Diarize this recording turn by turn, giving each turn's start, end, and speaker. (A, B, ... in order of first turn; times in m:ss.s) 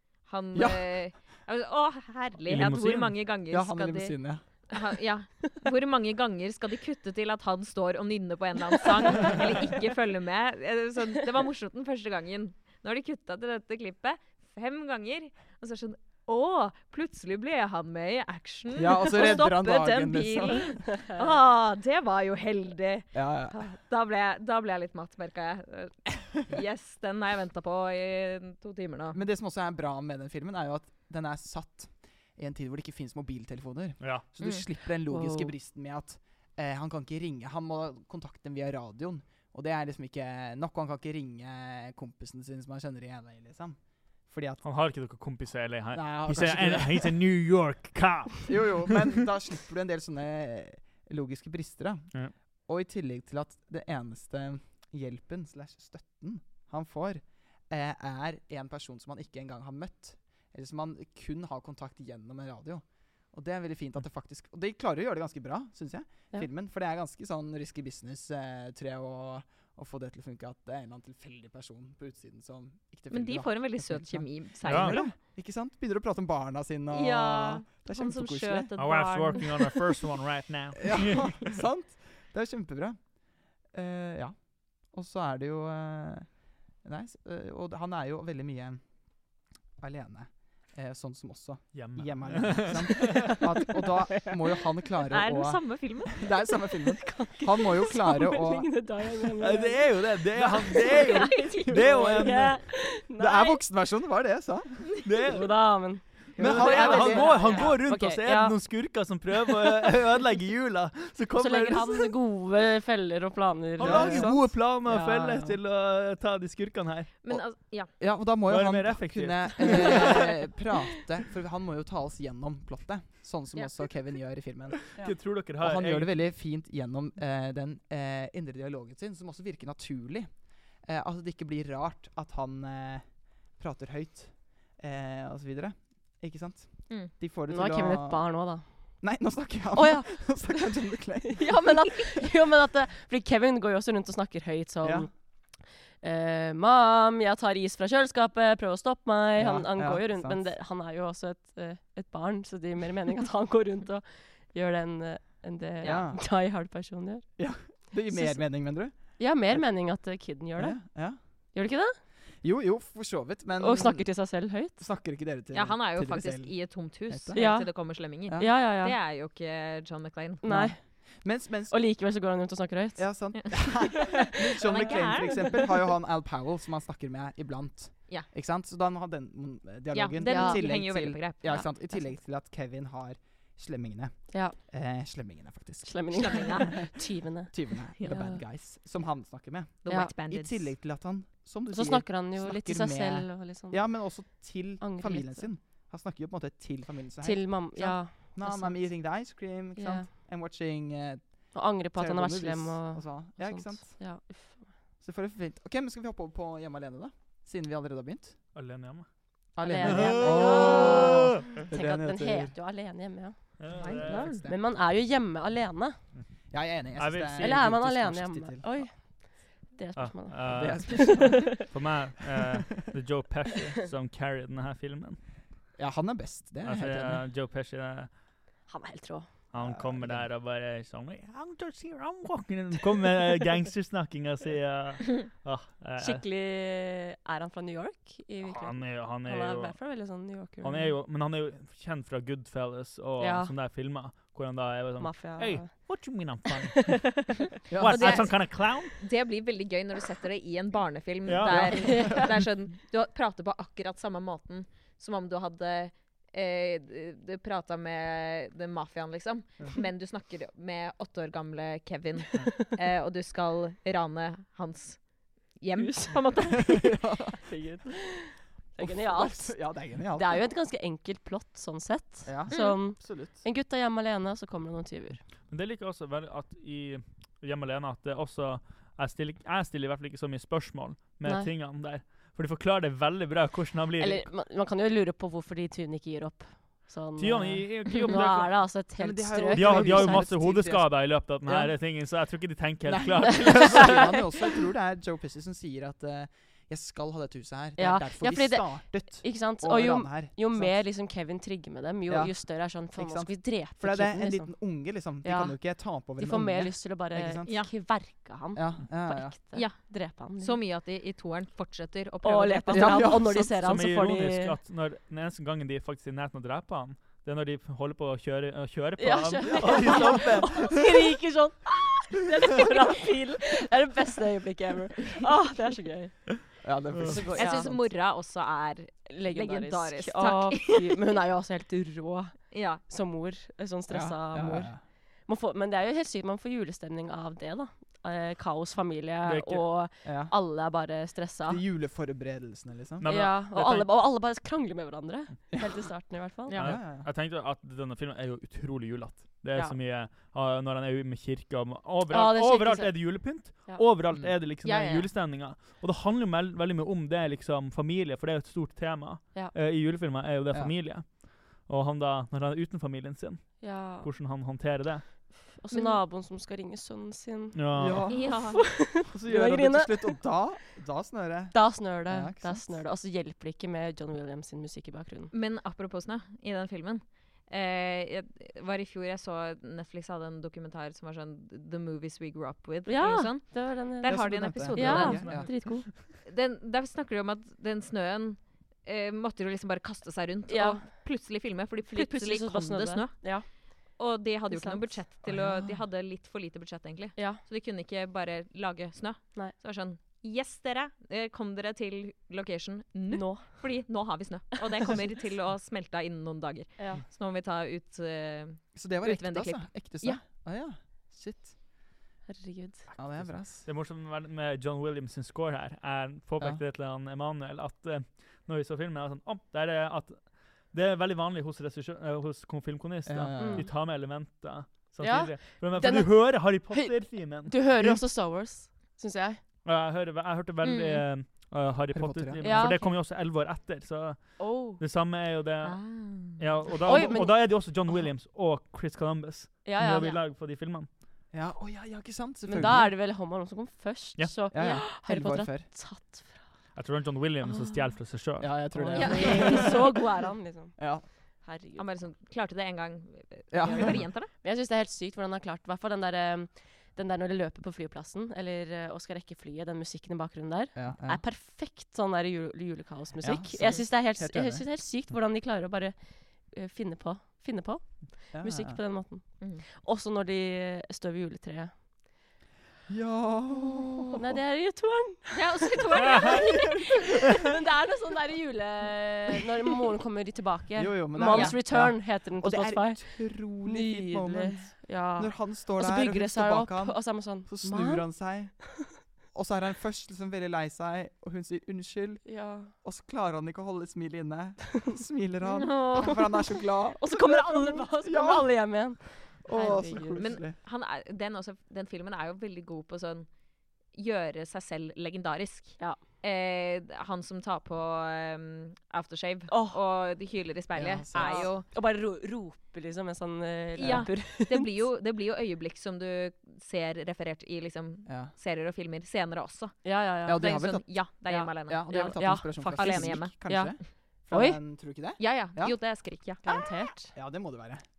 0:00.2-0:04.2 A
0:00.5-0:01.0 B
0:02.5-0:03.2 C
0:03.5-0:04.4 B
0:04.7-0:29.2 A
0:18.8-0:20.8 B
0:23.1-0:23.6 B
0:29.1-0:44.6 B
0:34.0-0:34.3 C
0:35.1-0:35.5 D
0:44.6-0:49.0 C
0:45.9-0:47.2 B
0:48.5-1:18.7 B
1:13.1-1:15.1 A
1:14.6-1:15.0 C
1:16.9-1:19.8 A
1:18.8-1:21.5 C
1:20.8-1:29.2 B
1:29.8-1:38.7 B
1:31.7-1:33.3 C
1:32.9-1:34.4 D
1:35.1-1:36.3 A
1:37.0-1:43.6 D
1:39.4-1:42.6 C
1:40.9-1:41.7 A
1:43.2-1:45.0 B
1:45.0-1:52.1 C
1:45.3-1:48.7 D
1:46.4-1:47.4 B
1:46.4-1:47.8 A
1:51.4-1:55.5 D
1:53.8-1:57.1 C
1:53.8-1:54.6 B
1:57.2-1:57.9 A
1:58.0-2:21.8 B
1:58.5-2:00.4 C
1:59.6-2:00.2 D
2:05.0-2:06.1 C
2:17.5-2:19.1 D
2:19.7-2:20.6 D
2:21.3-2:41.0 D
2:24.8-2:25.1 B
2:29.4-2:30.6 B
2:35.8-2:36.3 B
2:37.4-2:40.0 B
2:40.6-2:41.2 B
2:41.5-2:42.0 D
2:42.4-2:47.4 B
2:43.6-2:44.9 D
2:45.5-2:50.4 A
2:47.3-2:49.0 D
2:48.3-2:48.5 B
2:50.4-2:50.8 D
2:50.4-2:51.8 B
2:51.7-2:53.5 D
2:53.0-3:06.9 B
2:53.4-2:55.7 A
2:54.3-2:55.6 D
2:59.9-3:02.1 A
3:00.2-3:00.7 D
3:04.3-3:04.6 D
3:05.8-3:08.4 D
3:06.1-3:07.0 A
3:07.5-3:24.0 B
3:08.0-3:08.3 A
3:09.8-3:10.7 A
3:09.9-3:10.1 D
3:11.7-3:14.1 D
3:14.8-3:15.5 D
3:17.2-3:20.1 D
3:21.5-3:24.8 D
3:25.0-3:28.5 B
3:28.5-3:31.2 C
3:29.6-3:32.6 B
3:29.6-3:36.0 D
3:33.6-3:34.4 C
3:33.8-3:34.5 A
3:33.9-3:34.6 B
3:36.5-3:38.8 B
3:37.0-3:37.7 C
3:37.4-3:41.6 D
3:40.0-3:45.2 C
3:40.4-3:41.7 B
3:45.8-3:47.2 B
3:46.6-3:48.1 C
3:48.7-3:49.4 D
3:49.5-3:56.2 C
3:49.5-3:50.3 B
3:56.0-4:01.0 D
3:58.4-4:09.0 C
4:03.2-4:03.5 D
4:05.0-4:06.1 D
4:07.7-4:08.4 B
4:07.9-4:27.0 A
4:11.3-4:12.3 C
4:11.5-4:12.4 B
4:11.9-4:12.1 D
4:25.8-4:26.2 D
4:26.7-4:27.4 B
4:27.5-4:35.2 D
4:28.8-4:30.5 B
4:32.2-4:33.4 B
4:32.5-4:32.8 A
4:35.5-4:44.3 C
4:41.2-4:41.5 D
4:44.0-4:50.4 D
4:47.2-4:48.7 C
4:49.0-4:52.0 B
4:49.5-4:54.2 C
4:52.9-5:00.8 B
4:53.6-4:54.0 D
4:57.8-5:10.6 D
5:02.1-5:07.8 B
5:08.6-5:09.5 B
5:09.4-5:13.2 A
5:12.2-5:14.6 D
5:12.7-5:13.6 B
5:13.3-5:20.8 C
5:19.0-5:27.7 D
5:19.6-5:20.4 B
5:26.6-5:27.9 B
5:27.4-5:30.9 A
5:29.1-5:41.6 D
5:32.5-5:32.8 A
5:33.9-5:34.8 B
5:39.2-5:39.7 C
5:40.0-5:40.3 B
5:41.5-5:43.1 B
5:43.0-5:44.0 C
5:43.1-5:46.6 D
5:46.5-5:46.7 A
5:46.6-6:05.3 C
5:46.6-5:47.1 B
5:52.1-5:53.8 D
5:54.6-5:55.1 A
6:03.6-6:04.1 D
6:05.5-6:10.3 D
6:05.7-6:06.0 A
6:07.5-6:08.1 C
6:07.8-6:08.3 B
6:08.1-6:08.9 A
6:09.0-6:12.8 B
6:11.5-6:15.3 D
6:15.3-6:25.7 A
6:22.8-6:25.9 D
6:24.0-6:25.9 B
6:24.8-6:25.8 C
6:26.2-6:50.2 A
6:30.5-6:30.9 D
6:31.9-6:33.5 D
6:34.5-6:35.0 D
6:35.2-6:35.8 B
6:37.2-6:37.4 D
6:43.1-6:43.8 D
6:46.8-6:47.0 D
6:48.7-6:51.6 B
6:52.3-6:52.9 D
6:53.0-7:08.0 C
6:53.0-6:53.7 B
7:03.1-7:03.7 B
7:03.4-7:03.7 D
7:05.0-7:09.4 D
7:09.6-7:20.9 C
7:10.6-7:11.0 A
7:11.9-7:12.7 B
7:12.4-7:12.9 D
7:14.4-7:14.8 D
7:15.6-7:17.3 A
7:16.8-7:17.4 D
7:19.6-7:20.2 D
7:21.3-7:22.9 B
7:22.5-7:26.5 D
7:24.2-7:24.6 C
7:24.5-7:25.7 B
7:26.8-7:28.8 C
7:28.4-7:29.9 B
7:28.7-7:31.9 D
7:29.0-7:29.8 A
7:30.8-7:31.1 B
7:31.8-7:34.3 A
7:33.5-7:34.1 B
7:34.3-7:51.8 D
7:40.8-7:41.2 B
7:43.2-7:44.7 B
7:48.3-7:48.8 B
7:52.9-7:54.2 B
7:54.1-7:56.5 D
7:55.3-7:56.9 A
7:57.4-8:08.3 D
8:00.8-8:20.6 B
8:01.3-8:01.6 A
8:12.2-8:12.7 D
8:15.5-8:16.6 A
8:17.0-8:20.3 D
8:20.2-8:23.3 A
8:23.9-8:31.7 A
8:29.5-8:29.8 D
8:30.7-8:31.5 B
8:31.1-8:34.8 D
8:33.8-8:43.7 A
8:33.8-8:34.1 B
8:38.1-8:38.3 B
8:39.8-8:40.6 D
8:40.2-8:41.1 B
8:41.3-8:44.6 D
8:41.7-8:45.8 B
8:45.2-8:46.6 A
8:46.4-8:47.2 D
8:47.1-8:47.8 B